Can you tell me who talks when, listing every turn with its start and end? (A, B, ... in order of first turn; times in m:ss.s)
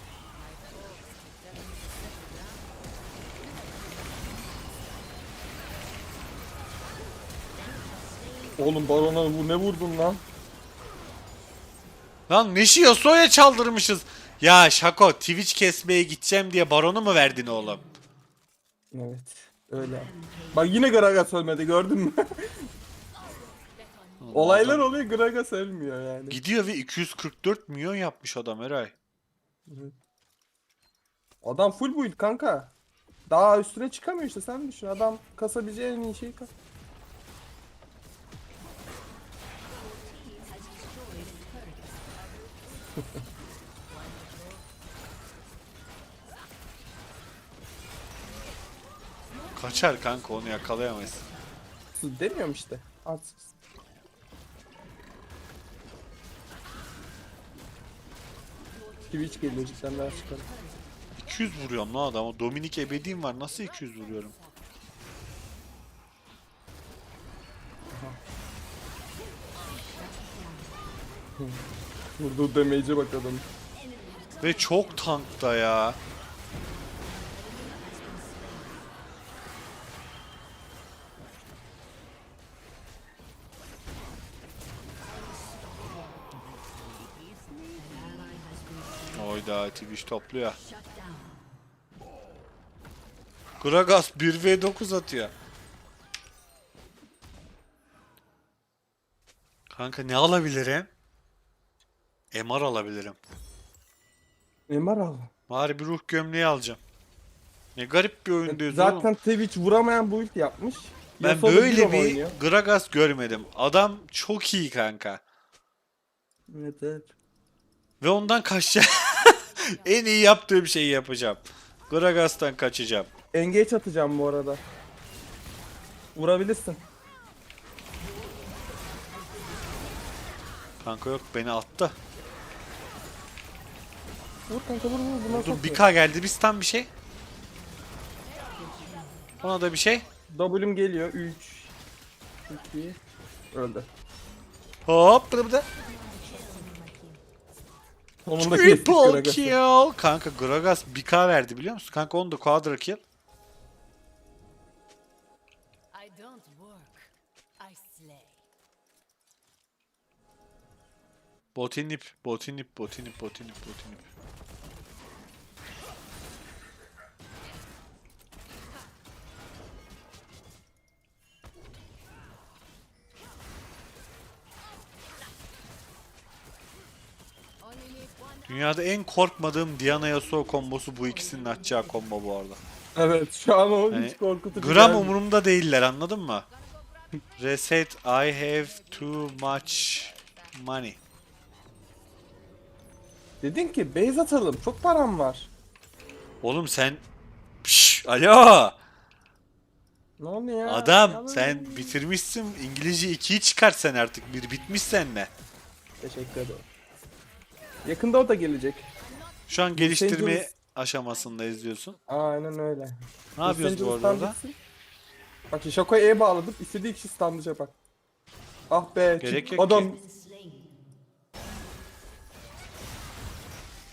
0:00.3-0:02.8 A
0:03.4-0:04.4 A
0:07.9-0:08.6 A
0:08.6-0:10.2 B
0:12.3-0:17.8 C
0:18.9-0:22.7 B
0:23.1-0:24.7 A
0:24.2-0:24.8 C
0:24.3-0:26.4 B
0:26.3-0:28.9 C
0:29.7-0:29.9 B
0:31.4-0:32.7 B
0:33.3-0:36.5 B
0:42.2-0:43.2 A
0:43.9-0:44.7 A
0:49.5-0:51.2 C
0:51.9-0:53.5 B
0:59.1-1:00.5 B
1:01.2-1:04.3 C
1:03.3-1:04.4 A
1:07.9-1:08.2 B
1:10.0-1:10.3 A
1:11.4-1:11.6 B
1:12.2-1:13.5 B
1:14.4-1:16.0 C
1:26.0-1:26.4 A
1:27.0-1:28.4 A
1:29.1-1:30.6 C
1:33.6-1:35.3 C
1:39.7-1:40.9 C
1:42.3-1:43.2 C
1:44.7-1:45.3 B
1:45.5-1:46.8 C
1:47.7-1:49.1 C
1:48.5-1:52.4 B
1:51.2-1:55.2 C
1:56.5-1:57.1 B
1:58.0-2:03.1 C
2:03.3-2:04.6 B
2:06.1-2:06.8 B
2:10.8-2:12.0 C
2:14.5-2:15.8 B
2:15.3-2:16.9 C
2:18.4-2:19.1 A
2:19.4-2:20.0 C
2:20.3-2:21.7 B
2:22.5-2:23.0 B
2:23.5-2:23.9 B
2:24.8-2:25.7 C
2:26.0-2:26.9 A
2:28.2-2:29.6 B
2:28.4-2:33.0 C
2:35.9-2:38.4 A
2:41.5-2:44.0 C
2:57.6-2:58.6 A
2:58.5-3:02.6 C
3:02.9-3:05.1 B
3:03.9-3:06.4 C
3:06.6-3:07.4 A
3:07.4-3:11.0 C
3:08.1-3:10.6 A
3:13.4-3:15.5 B
3:16.4-3:17.0 C
3:17.6-3:18.8 C
3:20.2-3:22.0 B
3:20.6-3:25.3 C
3:26.0-3:26.6 B
3:27.8-3:28.9 B
3:29.2-3:29.5 A
3:29.5-3:32.0 C
3:29.7-3:30.5 B
3:31.1-3:32.0 A
3:32.1-3:34.6 B
3:33.4-3:34.4 C
3:35.5-3:37.8 B
3:38.7-3:40.0 B
3:39.2-3:40.0 C